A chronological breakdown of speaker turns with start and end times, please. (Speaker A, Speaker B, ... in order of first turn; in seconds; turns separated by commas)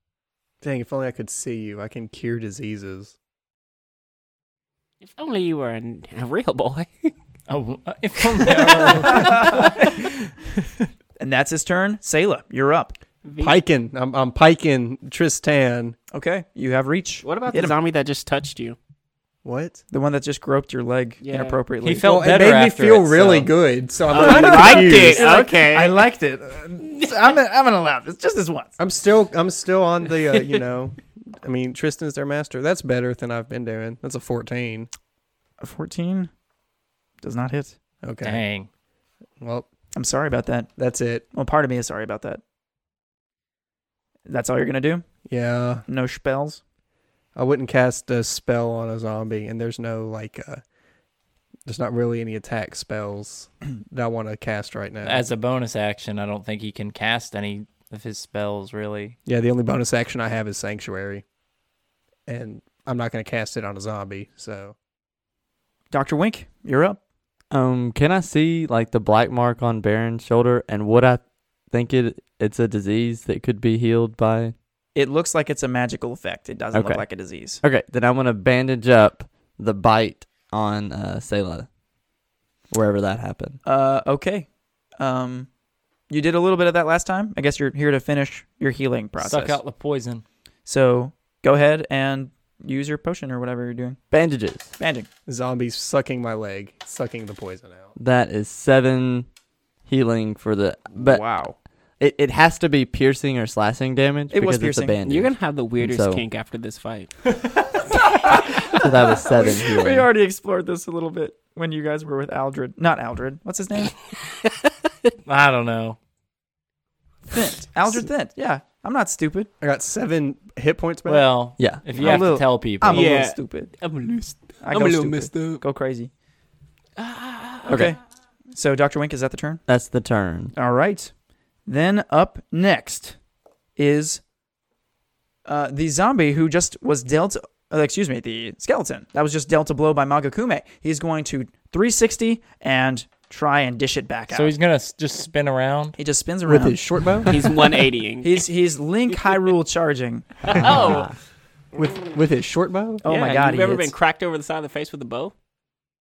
Speaker A: 0.6-3.1, Speaker B: 5.0-7.1, Speaker C: 7.5-10.1, Speaker B: 8.6-9.1, Speaker D: 9.1-9.7, Speaker D: 11.2-12.9, Speaker B: 13.2-13.6, Speaker A: 13.4-15.9, Speaker D: 16.1-17.8, Speaker B: 17.2-18.8, Speaker A: 19.4-19.8, Speaker D: 19.9-22.1, Speaker B: 21.2-21.6, Speaker C: 21.8-23.5, Speaker A: 21.9-25.2, Speaker B: 24.1-26.1, Speaker D: 24.2-28.7, Speaker A: 28.8-34.9, Speaker B: 30.3-30.6, Speaker D: 35.6-36.3, Speaker D: 37.2-37.8, Speaker A: 38.0-38.4, Speaker C: 38.2-38.7, Speaker A: 39.4-39.7, Speaker D: 40.0-40.7, Speaker A: 40.8-41.3, Speaker D: 41.3-42.4, Speaker D: 44.3-45.1, Speaker A: 45.3-45.9, Speaker D: 45.9-46.6, Speaker A: 47.4-50.6, Speaker A: 51.6-55.2, Speaker C: 55.0-59.2, Speaker A: 59.3-61.2, Speaker A: 62.3-64.7, Speaker D: 65.9-67.0, Speaker E: 67.5-74.5, Speaker D: 75.0-77.6, Speaker E: 76.7-77.0, Speaker E: 77.6-81.7, Speaker E: 82.7-83.6, Speaker D: 83.7-84.5, Speaker D: 85.0-85.5, Speaker D: 86.1-89.6, Speaker C: 89.2-90.2, Speaker D: 90.7-94.0, Speaker E: 94.1-94.7, Speaker D: 94.8-95.1, Speaker A: 95.3-97.9, Speaker E: 98.0-99.3, Speaker E: 99.9-101.2, Speaker D: 101.0-101.6, Speaker E: 102.0-106.2, Speaker D: 104.3-105.0, Speaker B: 105.0-107.1, Speaker D: 108.2-108.5, Speaker E: 108.7-110.1, Speaker D: 109.2-114.0, Speaker C: 115.3-116.0, Speaker D: 117.3-119.5, Speaker A: 119.6-121.3, Speaker C: 121.1-123.1, Speaker E: 121.6-121.9, Speaker D: 122.0-123.7, Speaker B: 122.0-122.3, Speaker B: 122.8-125.6, Speaker D: 124.6-126.1, Speaker B: 127.0-127.9, Speaker D: 127.7-128.0, Speaker E: 127.7-128.0, Speaker D: 128.5-129.6, Speaker E: 129.7-130.5, Speaker D: 130.6-131.1, Speaker D: 131.7-133.2, Speaker D: 133.8-134.2, Speaker D: 135.4-144.6, Speaker C: 144.3-145.9, Speaker D: 146.0-147.3, Speaker A: 146.4-147.5, Speaker B: 147.3-148.4, Speaker D: 148.2-151.0, Speaker B: 150.5-151.1, Speaker A: 151.7-153.1, Speaker D: 153.0-153.9, Speaker B: 153.1-155.3